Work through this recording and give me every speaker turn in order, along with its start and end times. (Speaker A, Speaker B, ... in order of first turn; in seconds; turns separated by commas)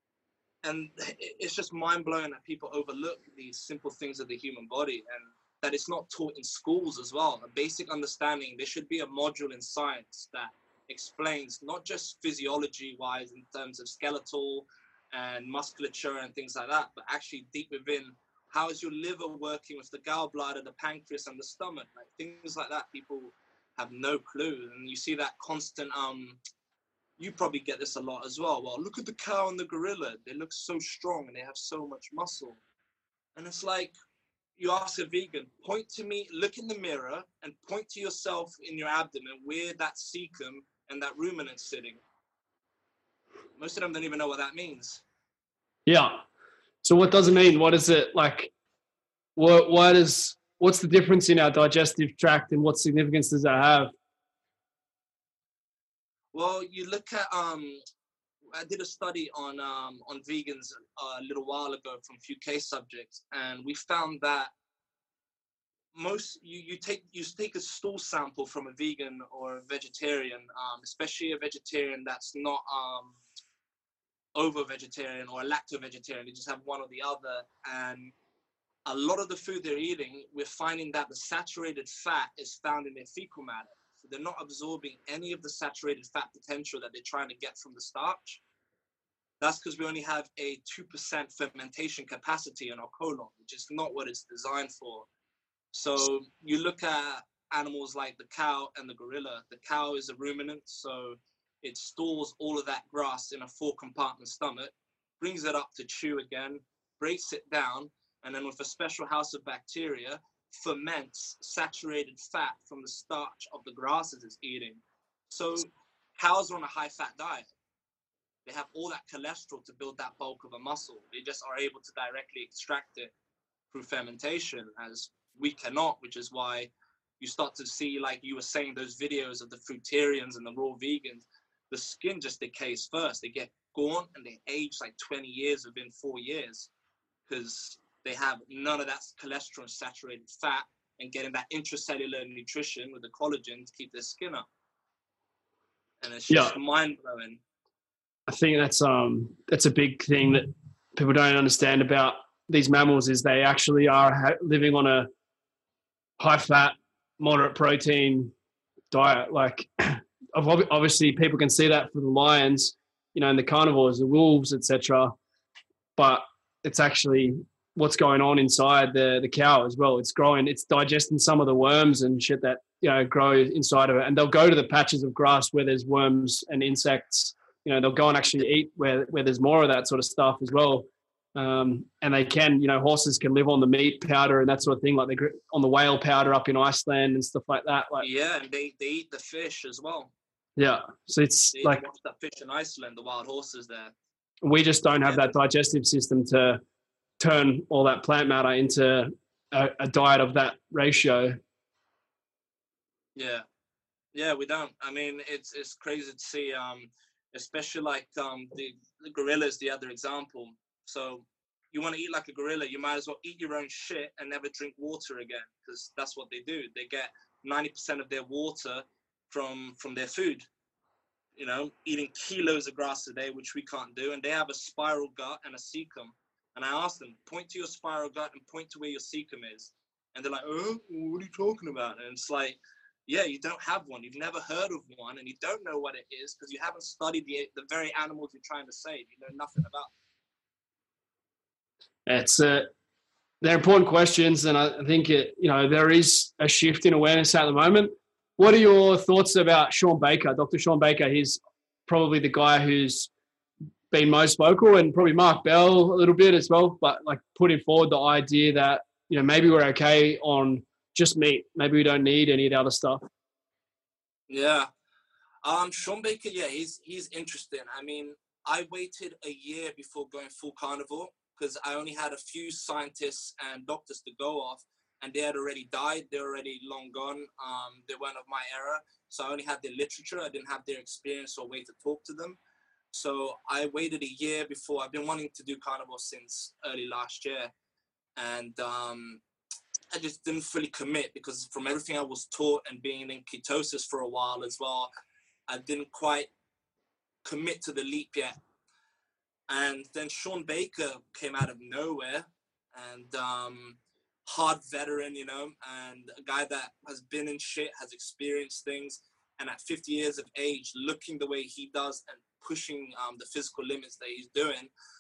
Speaker A: 0.6-26.4, Speaker A: 27.2-32.6, Speaker A: 33.4-33.9, Speaker A: 34.6-42.0, Speaker A: 43.6-45.0, Speaker B: 45.9-46.2, Speaker B: 46.8-48.5, Speaker B: 49.4-53.9, Speaker A: 56.3-57.8, Speaker A: 58.5-64.5, Speaker A: 65.9-73.2, Speaker A: 74.3-78.1, Speaker A: 78.9-88.4, Speaker A: 89.4-95.1, Speaker A: 95.7-117.5, Speaker A: 118.5-123.1, Speaker A: 123.7-136.7, Speaker A: 137.3-144.5, Speaker A: 146.0-147.4, Speaker B: 146.3-146.6, Speaker B: 148.3-155.1, Speaker B: 156.2-158.3, Speaker B: 158.9-165.2, Speaker B: 166.0-188.1, Speaker A: 188.0-190.1, Speaker B: 190.6-191.8, Speaker A: 191.5-193.9, Speaker B: 194.4-196.6, Speaker A: 195.0-195.3, Speaker B: 197.2-201.4, Speaker A: 203.2-203.4, Speaker A: 204.1-220.5, Speaker A: 221.4-239.9, Speaker B: 242.1-242.7, Speaker B: 243.4-253.1, Speaker B: 253.9-263.1, Speaker A: 264.3-264.7, Speaker A: 265.4-282.4, Speaker A: 282.9-287.5, Speaker A: 288.2-289.2, Speaker A: 289.9-294.9, Speaker A: 295.5-296.3, Speaker A: 297.2-298.4, Speaker A: 299.5-314.7